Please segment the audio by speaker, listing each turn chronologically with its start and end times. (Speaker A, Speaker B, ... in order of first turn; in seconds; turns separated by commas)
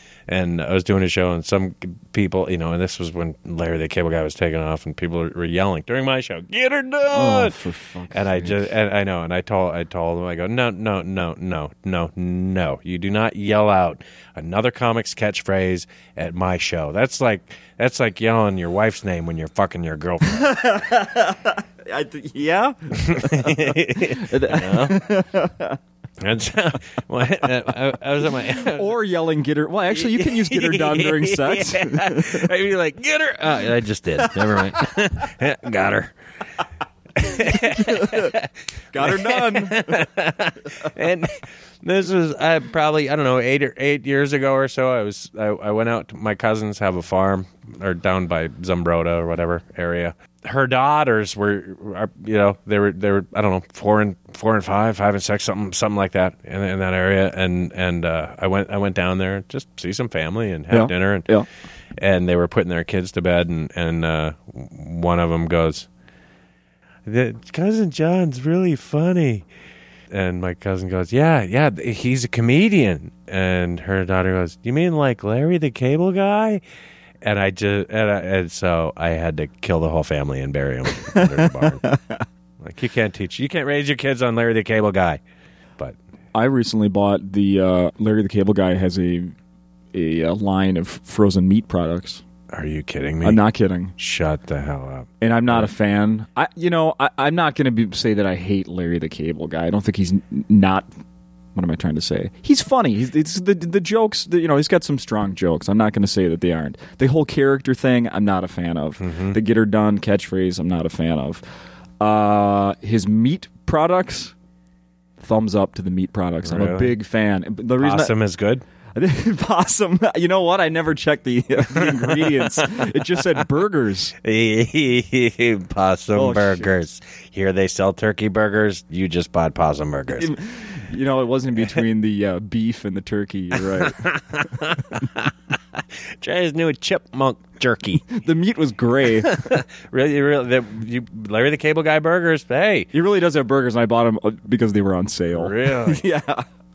Speaker A: 0.3-7.6, Speaker B: 7.1-8.7, Speaker A: 8.1-20.5, Speaker B: 20.2-25.8, Speaker A: 22.9-25.0, Speaker A: 26.2-28.9, Speaker B: 28.5-32.5, Speaker A: 29.9-36.1, Speaker B: 34.3-34.8, Speaker A: 37.1-61.3, Speaker B: 37.3-38.4, Speaker B: 38.9-40.0, Speaker B: 60.7-61.5, Speaker A: 62.0-65.9, Speaker A: 67.0-69.5, Speaker A: 70.1-76.6, Speaker A: 77.2-81.9, Speaker B: 81.1-82.2, Speaker A: 82.6-85.2, Speaker B: 86.3-89.3, Speaker B: 89.9-92.2, Speaker A: 92.5-93.4, Speaker B: 93.2-93.9, Speaker A: 94.0-95.7, Speaker B: 95.2-100.9, Speaker B: 101.5-111.4, Speaker A: 109.0-109.4, Speaker B: 112.0-114.3, Speaker B: 115.2-118.1, Speaker A: 116.5-117.0, Speaker A: 117.8-118.6, Speaker B: 118.9-124.1, Speaker A: 121.7-123.4, Speaker A: 124.2-130.3, Speaker B: 126.1-126.7, Speaker B: 130.2-134.7, Speaker A: 133.5-138.1, Speaker B: 138.1-139.6, Speaker A: 139.1-142.9, Speaker B: 142.9-146.4, Speaker A: 145.3-146.1